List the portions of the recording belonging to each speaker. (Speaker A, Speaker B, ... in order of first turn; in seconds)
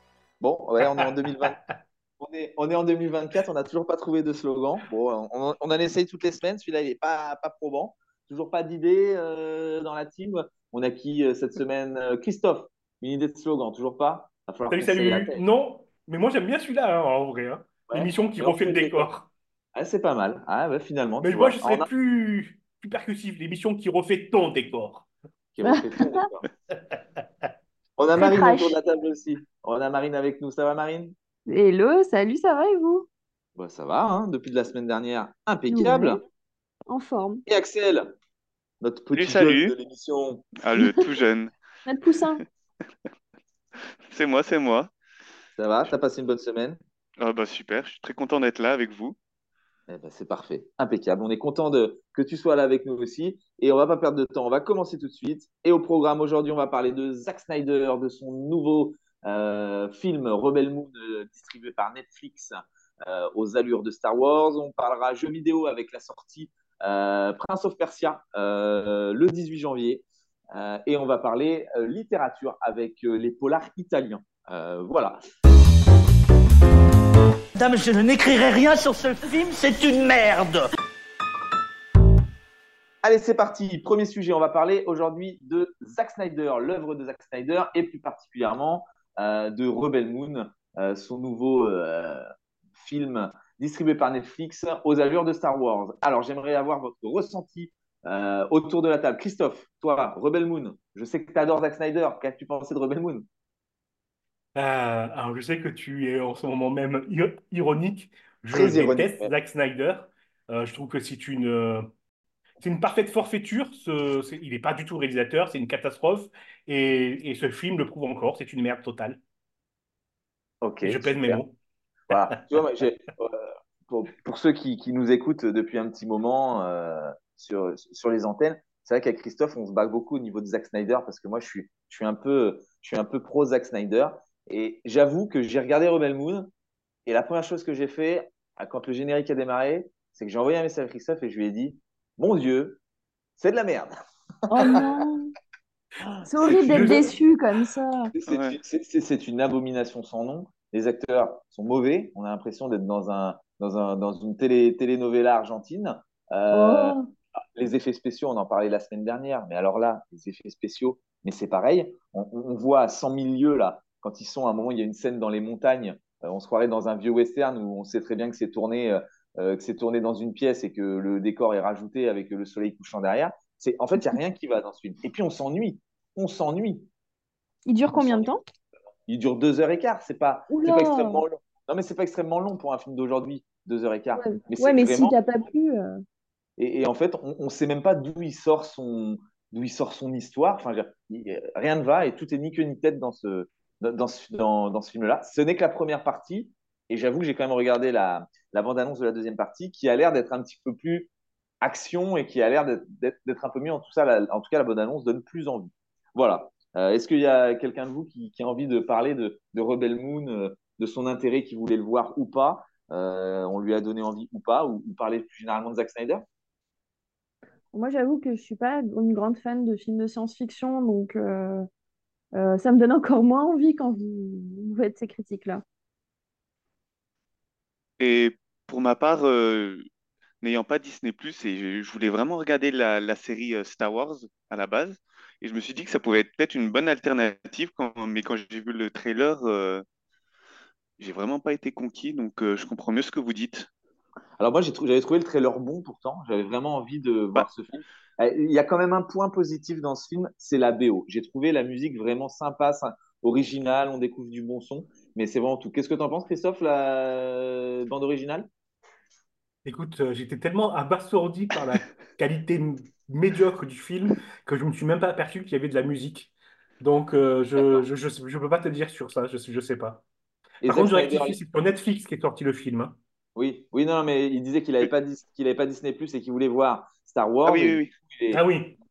Speaker A: 0.4-1.6, 2.2-15.4, 17.9-19.1, 19.8-21.9, 25.5-26.4, 28.0-31.1, 33.6-36.2, 37.5-38.1, 38.8-40.5, 45.6-46.8, 49.9-75.2, 83.0-92.2, 92.8-103.3, 108.5-109.3, 120.6-121.4, 122.1-136.5, 137.1-142.8, 143.4-143.9, 146.0-147.1, 148.1-156.9, 157.6-176.9, 177.9-178.3, 179.1-185.2, 186.6-201.1, 201.6-216.2, 244.4-258.5, 270.6-271.4, 273.4-278.4
Speaker B: 0.8-1.7, 14.7-19.3, 21.2-25.1, 104.6-111.9, 112.6-119.2, 120.8-121.5, 146.5-147.1, 259.6-270.0, 270.6-273.0, 278.3-278.8
Speaker C: 25.6-26.2, 28.2-28.8, 31.5-33.1, 35.7-36.2, 36.9-37.4, 41.9-42.4, 144.5-145.3, 146.3-148.1, 156.5-157.0, 177.7-178.4, 180.5-181.2, 184.1-186.0, 217.7-221.7, 222.3-225.6
Speaker D: 39.1-39.8, 40.6-41.5, 44.0-44.9, 47.2-49.2, 148.3-148.6, 228.0-229.9, 230.4-239.8, 241.0-243.7, 277.5-277.9
Speaker E: 77.6-80.6